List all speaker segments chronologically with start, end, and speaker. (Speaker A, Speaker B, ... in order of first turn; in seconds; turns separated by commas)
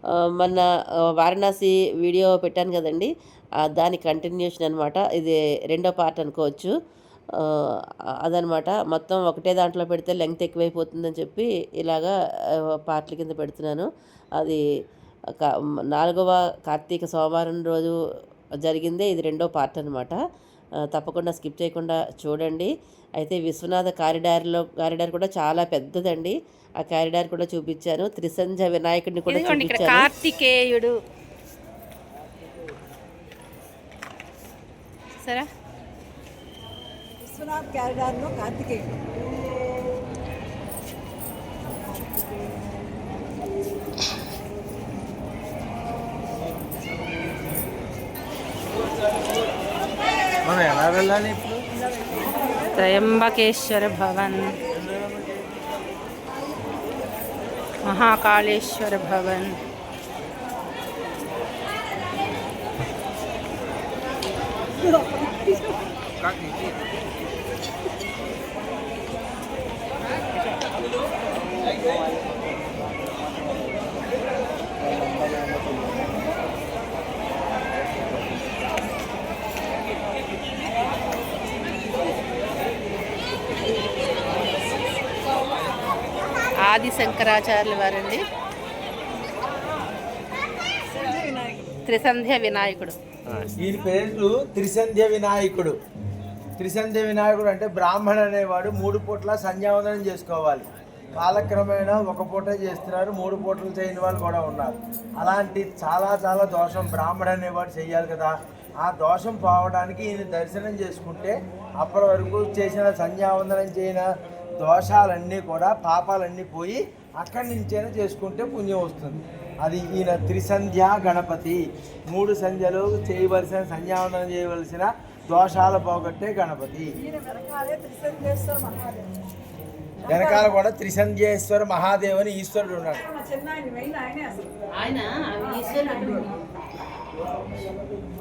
Speaker A: 0.2-0.6, Speaker A: 1.2-3.1, Speaker A: 3.6-6.7, Speaker A: 8.2-12.1, Speaker A: 12.9-13.9, Speaker A: 15.4-17.9, Speaker A: 18.6-20.2, Speaker A: 20.9-30.1, Speaker B: 29.3-31.0, Speaker C: 37.2-38.9, Speaker D: 50.4-51.6, Speaker B: 52.7-54.5, Speaker B: 57.9-59.5, Speaker C: 65.0-65.7, Speaker B: 86.6-88.2, Speaker C: 91.2-91.5, Speaker B: 91.9-93.0, Speaker D: 93.6-95.8, Speaker D: 96.6-114.1, Speaker D: 114.6-126.9, Speaker C: 127.1-129.1, Speaker D: 130.1-133.0, Speaker C: 133.3-134.5, Speaker B: 134.7-136.3